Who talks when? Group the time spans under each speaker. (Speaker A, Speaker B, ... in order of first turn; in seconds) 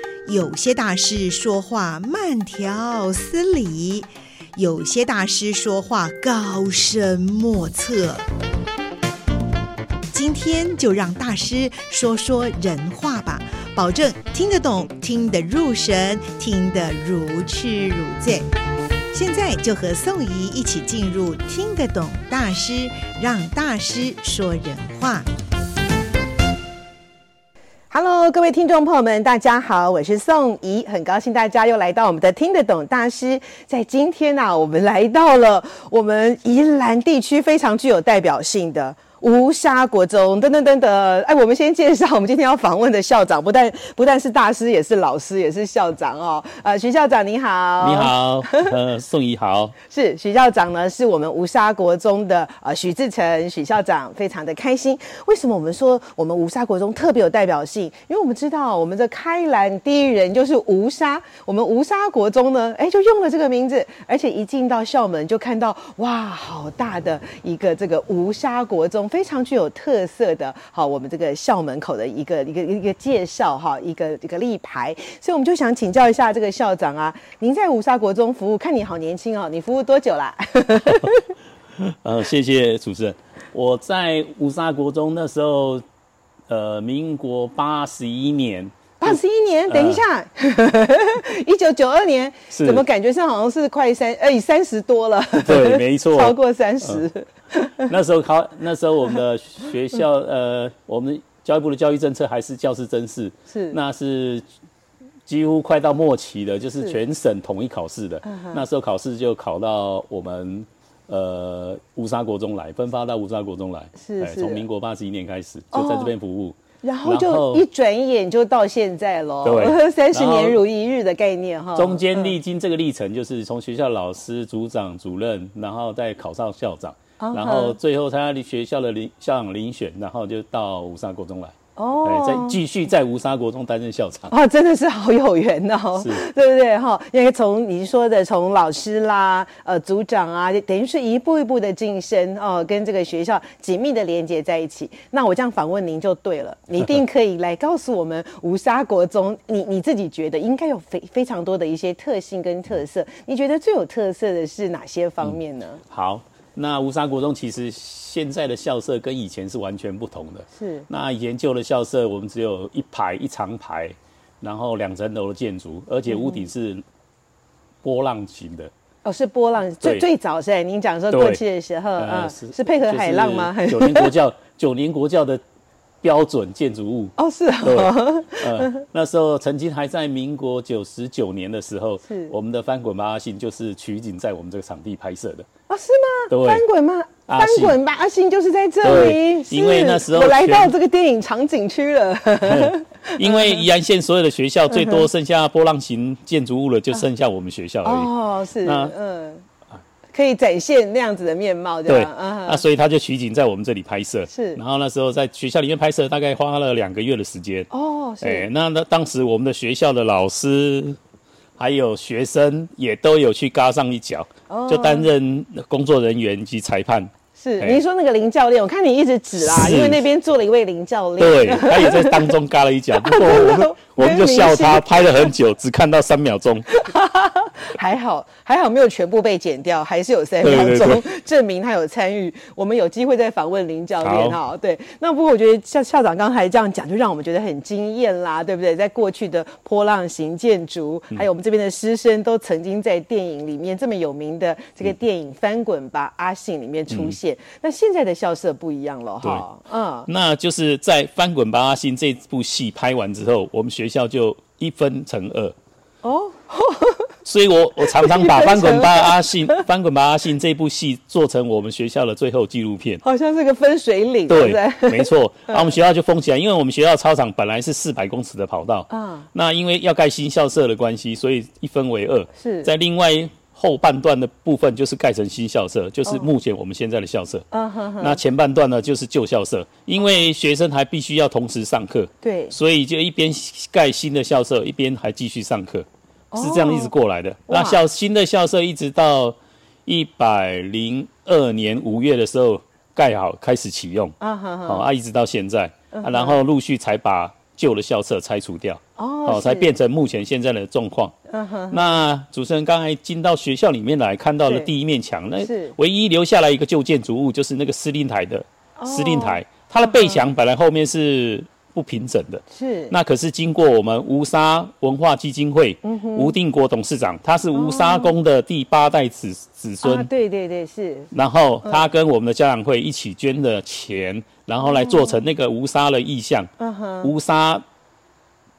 Speaker A: 0.2-8.2, 10.1-18.5, 19.1-25.3
Speaker B: 27.9-48.7, 49.9-81.2, 89.0-97.9, 103.5-103.8, 108.2-108.6, 114.0-114.7, 115.7-116.1, 116.8-122.3, 127.2-127.8, 131.8-132.6, 134.3-155.8, 160.5-160.9, 166.1-166.5, 169.0-174.1, 177.2-178.8, 182.1-182.3, 185.7-193.6, 194.7-195.1, 197.8-199.4, 200.1-202.6, 204.3-204.6, 207.7-208.5, 214.5-215.1, 217.4-222.3, 223.0-225.3, 226.7-250.1, 256.0-257.1, 257.8-259.6, 263.0-265.7, 268.9-269.3, 272.4-272.7, 276.1-276.3, 277.5-278.2, 282.2-282.6, 286.3-286.9, 287.5-287.8, 294.2-294.9, 295.9-296.4, 299.0-299.7, 301.3-302.0, 304.4-304.7, 305.4-305.7, 308.8-310.2, 312.5-312.9, 315.8-316.4, 317.5-318.1, 319.8-321.1, 324.6-325.2, 326.6-327.1
Speaker C: 47.8-49.7, 81.8-85.8, 86.5-90.0, 92.5-92.8, 95.3-97.0, 97.9-104.4, 105.2-117.7, 119.4-120.6, 121.7-134.3, 136.0-136.2, 155.9-166.8, 167.8-168.7, 171.1-171.4, 172.0-175.4, 176.0-185.5, 186.3-186.6, 187.3-187.8, 188.8-190.7, 192.4-198.1, 198.6-198.9, 201.9-207.7, 208.2-211.0, 211.6-217.8, 219.4-220.0, 221.2-226.7, 230.4-231.1, 234.0-234.4, 246.9-247.2, 250.1-255.5, 257.2-263.0, 264.3-277.4, 278.0-294.1, 294.6-301.2, 301.7-320.1, 321.1-326.5, 327.0-327.6